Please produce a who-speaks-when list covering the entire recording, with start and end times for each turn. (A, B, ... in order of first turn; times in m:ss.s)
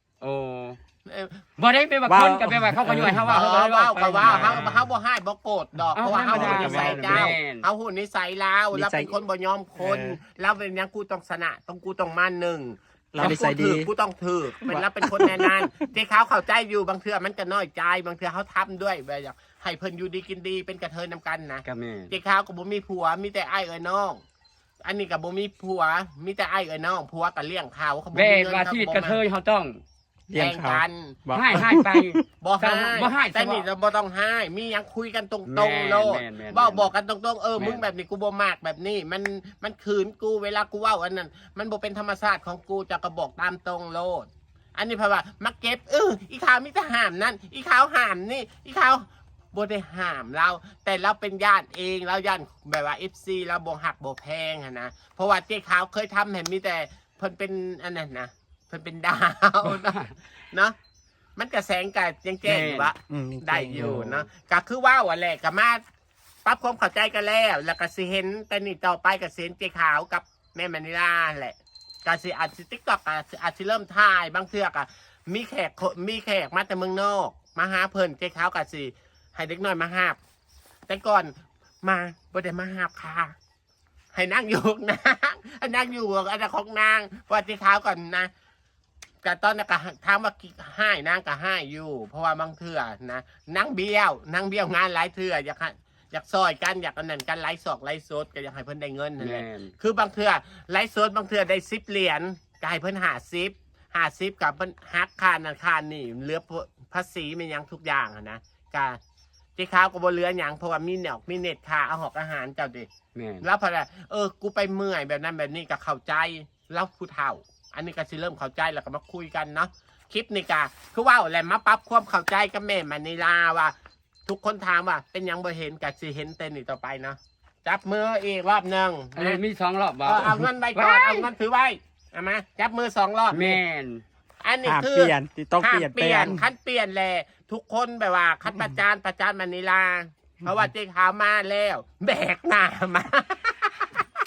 0:00.2-0:00.8 A
0:01.0-0:01.4 B
0:01.6-0:04.8 A
0:02.0-0:03.4 C
0:03.3-0:24.2 B
0:04.3-0:04.8 C
0:06.0-0:07.6 A
0:06.1-0:07.3 C
0:08.7-0:09.1 C
0:09.8-0:10.2 C
0:13.1-0:13.9 C
0:14.6-0:15.8 C
0:21.6-0:22.1 A
0:24.8-0:29.2 B
0:28.1-0:29.8 A
0:30.3-0:32.2 C
0:30.3-0:31.2 B
0:31.3-0:33.6 A
0:32.4-1:00.8 B
0:35.4-0:36.9 A
0:37.6-0:37.8 A
0:59.6-1:00.1 A
1:01.4-1:05.8 B
1:02.4-1:02.9 A
1:03.1-1:04.2 C
1:03.7-1:04.1 A
1:06.4-1:20.2 B
1:20.9-1:23.3 B
1:24.1-1:28.3 B
1:29.2-1:49.0 B
1:39.2-1:39.7 A
1:49.6-1:52.9 B
1:53.1-1:53.4 A
1:53.4-2:03.7 B
2:04.2-2:09.4 B
2:09.2-2:11.3 A
2:10.0-2:13.6 B
2:13.3-2:14.0 A
2:14.4-2:24.1 B
2:14.6-2:16.4 C